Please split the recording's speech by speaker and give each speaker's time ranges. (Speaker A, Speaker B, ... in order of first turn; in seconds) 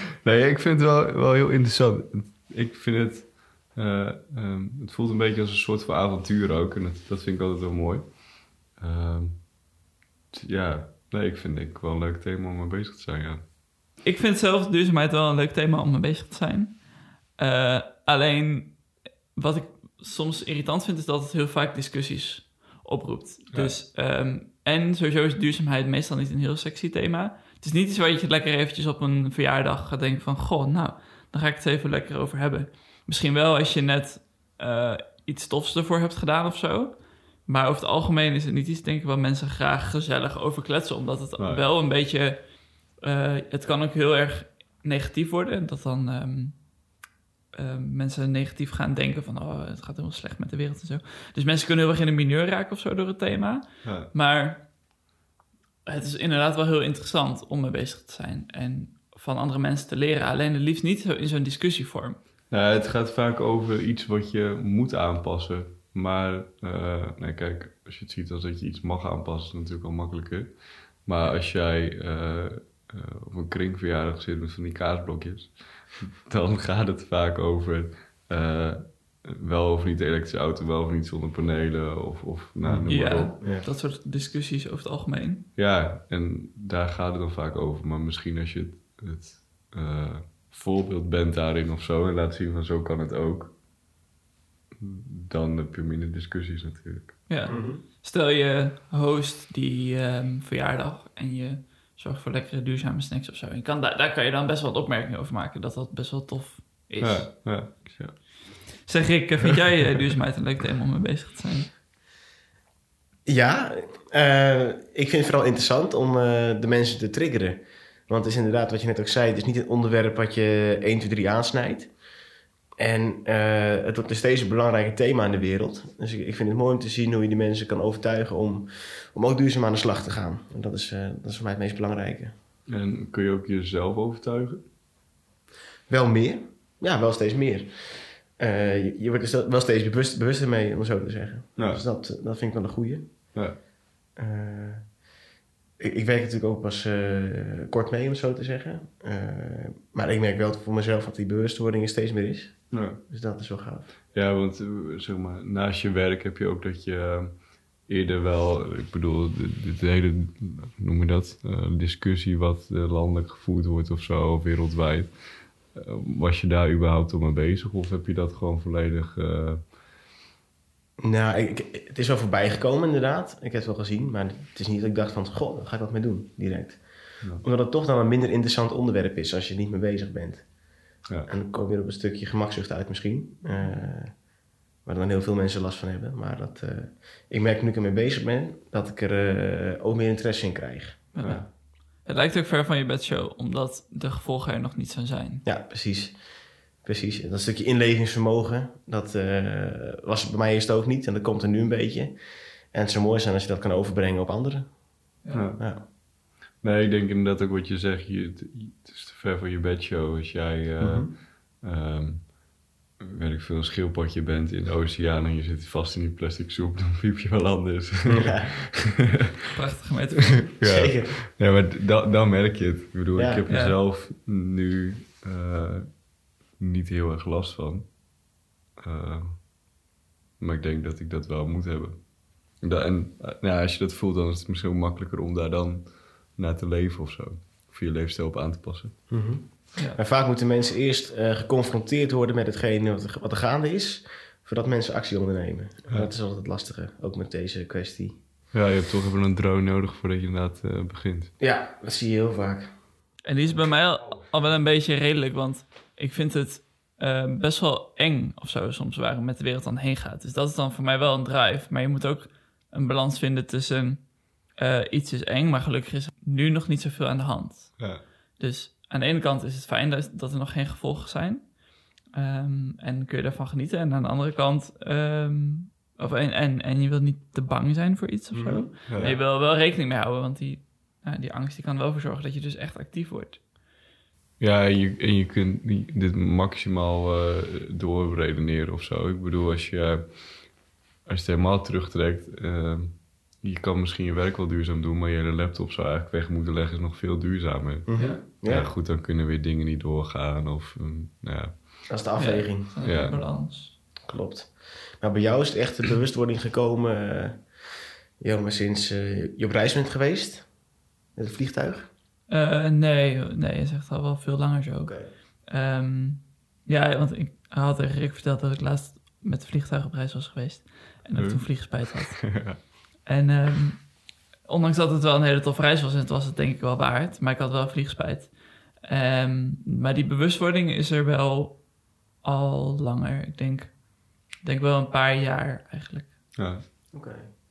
Speaker A: 0.2-9.6, 10.3-13.4, 41.4-41.7, 53.8-54.1, 62.5-83.4, 85.5-93.6, 94.8-97.3, 107.0-108.6, 132.7-134.7, 141.6-141.8, 152.7-153.0, 154.1-169.7, 177.2-177.4, 205.3-212.4, 213.0-219.0, 220.5-228.0, 228.8-229.5, 230.4-239.3, 248.5-251.3, 267.8-268.1, 278.9-279.2, 284.4-302.0, 302.8-303.3, 321.1-322.6, 336.4-336.6
Speaker B: 14.0-46.8, 47.5-54.7, 55.8-62.2, 82.9-85.5, 97.3-108.0, 108.8-111.7, 183.4-183.8, 191.1-195.4, 205.2-205.5, 219.5-220.5, 223.5-223.8, 253.2-283.4, 297.9-298.2, 302.1-303.8, 312.3-336.3
Speaker C: 82.6-83.7, 97.5-97.8, 113.2-122.0, 122.8-132.3, 135.9-143.5, 144.2-145.0, 145.8-153.9, 171.0-184.2, 184.8-191.5, 195.4-204.8, 205.6-205.8, 210.8-211.1, 218.0-218.5, 220.6-221.2, 223.1-223.5, 239.1-248.2, 251.4-252.8, 278.3-278.7, 297.9-298.7, 301.9-302.8, 304.1-311.9, 314.8-315.1, 336.9-337.2